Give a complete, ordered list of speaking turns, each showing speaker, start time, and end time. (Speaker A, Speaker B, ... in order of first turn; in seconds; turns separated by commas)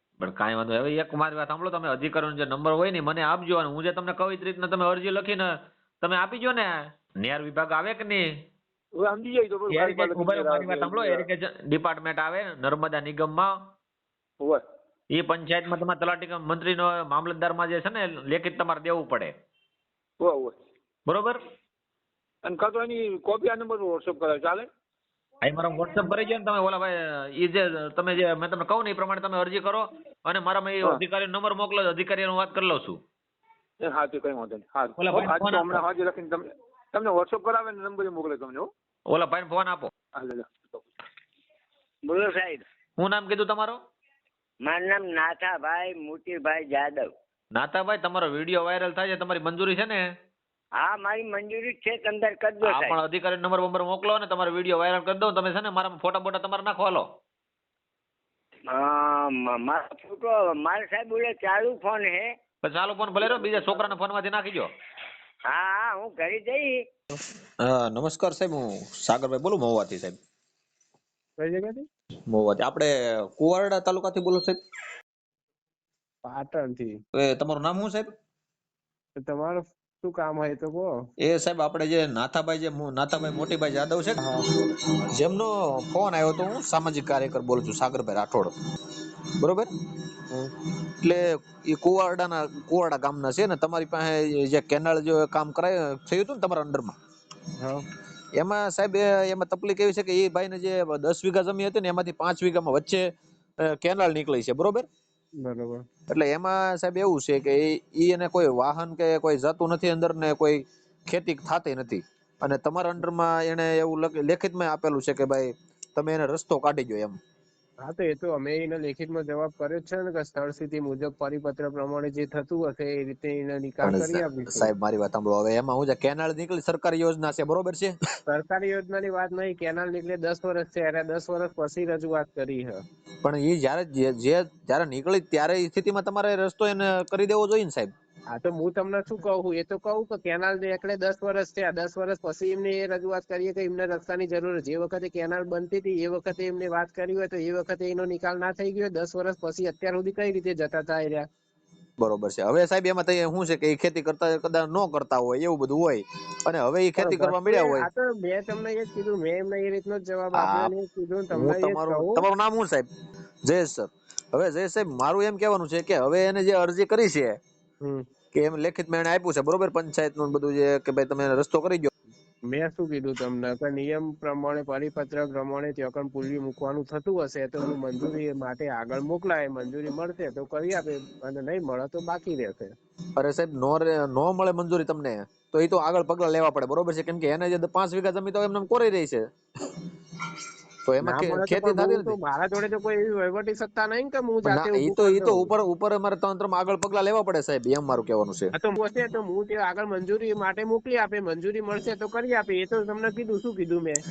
Speaker A: 0.2-8.3, Speaker B: 9.0-11.1, Speaker A: 9.7-13.5, Speaker A: 15.1-19.3, Speaker B: 20.2-20.5, Speaker A: 21.1-21.4, Speaker B: 22.4-24.7, Speaker A: 25.4-33.0, Speaker B: 33.8-38.7, Speaker A: 35.0-35.8, Speaker A: 39.1-39.9, Speaker B: 40.2-40.8, Speaker C: 42.1-42.6, Speaker A: 43.0-43.8, Speaker C: 44.7-47.1, Speaker A: 47.5-50.0, Speaker C: 50.8-53.0, Speaker A: 52.6-57.1, Speaker C: 58.7-62.3, Speaker A: 62.6-64.7, Speaker C: 65.5-66.8, Speaker A: 67.6-70.2, Speaker D: 71.4-71.9, Speaker A: 72.3-74.6, Speaker D: 76.2-77.0, Speaker A: 77.2-78.1, Speaker D: 79.2-81.0, Speaker A: 81.2-84.2, Speaker A: 85.1-88.5, Speaker A: 89.4-89.7, Speaker A: 91.0-96.9, Speaker A: 98.3-103.1, Speaker A: 103.6-104.8, Speaker D: 105.4-105.8, Speaker A: 106.1-117.2, Speaker D: 117.8-124.7, Speaker A: 123.8-127.9, Speaker D: 128.3-132.8, Speaker A: 133.2-137.9, Speaker D: 138.3-151.3, Speaker A: 152.0-157.9, Speaker D: 157.0-162.2, Speaker A: 160.4-160.7, Speaker A: 161.3-162.9, Speaker A: 163.4-167.4, Speaker A: 168.3-171.9, Speaker D: 172.5-182.7, Speaker A: 183.2-189.3, Speaker A: 190.9-192.1, Speaker D: 191.0-195.5, Speaker A: 194.4-198.5, Speaker D: 198.5-204.0